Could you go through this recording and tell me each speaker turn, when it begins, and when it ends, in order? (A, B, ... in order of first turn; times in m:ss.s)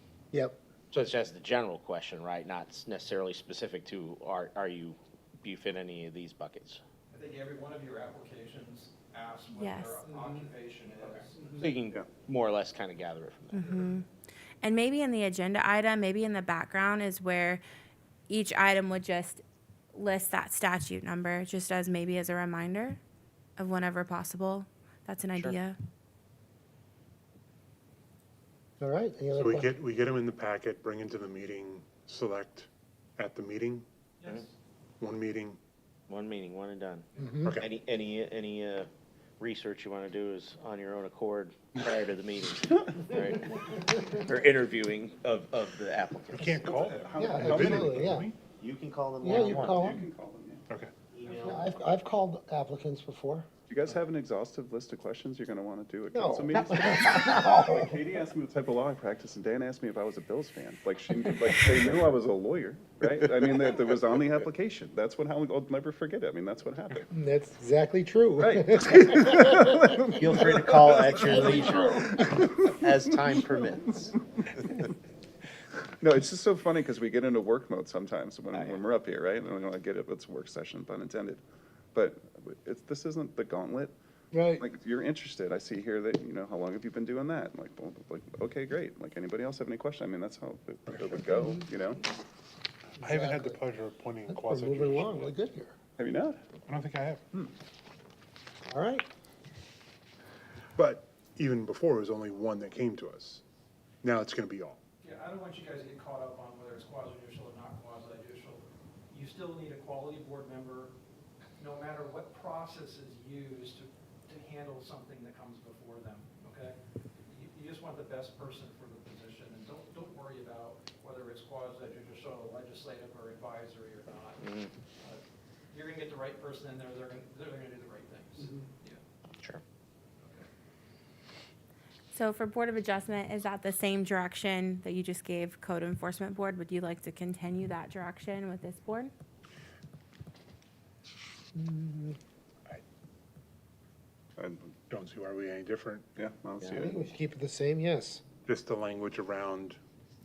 0:00.3-0:00.6 A
0:00.9-0:06.8 B
0:07.1-0:11.7 C
0:09.5-0:10.0 D
0:11.1-0:13.6 B
0:13.5-0:14.0 D
0:13.6-0:13.9 C
0:14.6-0:17.6 D
0:18.3-0:19.4 D
0:19.9-0:23.0 D
0:23.6-0:25.8 D
0:28.8-0:29.7 A
0:29.3-0:33.8 E
0:34.2-0:34.5 C
0:35.0-0:35.6 E
0:36.1-0:46.6 B
0:37.2-0:37.6 A
0:46.3-0:48.3 E
0:46.7-0:48.0 F
0:47.1-0:48.3 A
0:48.6-0:49.9 B
0:49.2-0:50.1 A
0:49.6-0:50.6 F
0:51.1-0:51.7 B
0:51.3-0:53.5 A
0:53.7-1:07.1 F
0:56.1-0:58.0 A
1:07.1-1:12.6 A
1:08.4-1:11.7 F
1:10.1-1:14.2 B
1:12.4-1:12.8 F
1:16.0-1:21.4 F
1:18.5-1:18.8 B
1:21.9-1:23.9 F
1:24.3-1:24.6 A
1:24.5-1:32.0 F
1:33.0-1:35.3 E
1:33.0-1:33.6 A
1:34.2-1:35.8 A
1:36.0-1:36.6 F
1:36.6-1:37.2 E
1:38.7-1:39.0 A
1:40.8-1:43.4 E
1:44.0-1:44.8 E
1:45.0-1:50.9 C
1:51.6-2:09.0 C
2:04.4-2:04.7 B
2:12.1-2:19.1 D
2:21.5-2:22.2 A
2:24.4-2:24.8 F
2:24.9-2:26.1 E
2:26.2-2:27.0 F
2:26.6-2:28.2 A
2:28.4-2:29.8 E